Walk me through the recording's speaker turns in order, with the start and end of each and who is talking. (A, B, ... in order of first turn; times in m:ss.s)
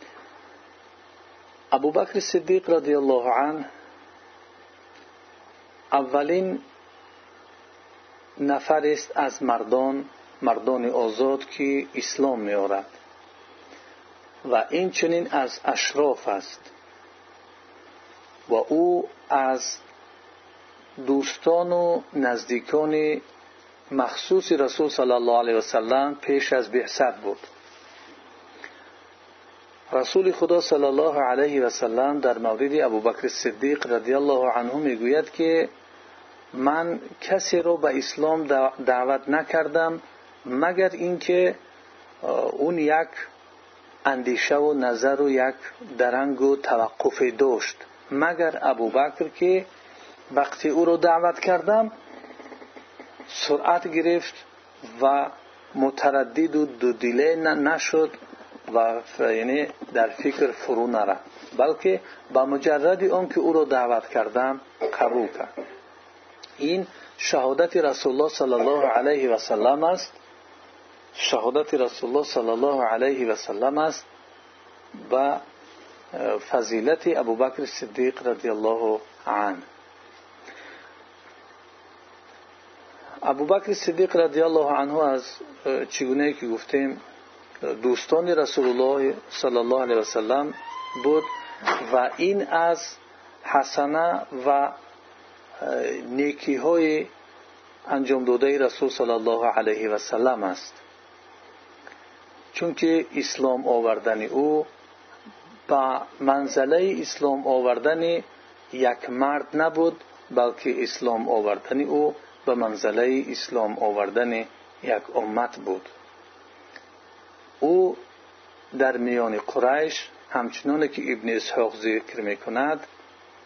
0:01.7-0:03.7 A
0:05.9-0:06.6 A
0:08.4-0:12.9 A
0:14.4-0:16.7 A
0:18.5-0:19.8 A
0:21.0-0:23.2 A
0:23.9-0:27.4 A
0:29.9-0:35.7 A
0:36.5-0:41.6 A
0:42.2-0:43.3 A
0:44.0-0:49.7 A
0:50.3-0:51.9 A
0:53.3-0:58.1 A
0:58.7-1:05.5 A
1:06.6-1:10.2 A
1:11.2-1:14.0 A
1:15.0-1:15.4 A
1:16.1-1:19.6 A
1:23.2-1:27.0 A
1:27.6-1:34.8 A
1:35.6-1:37.1 A
1:37.9-1:40.8 A
1:42.5-1:44.7 A
1:45.7-1:55.9 A
1:57.6-1:58.0 A
1:58.7-2:02.8 A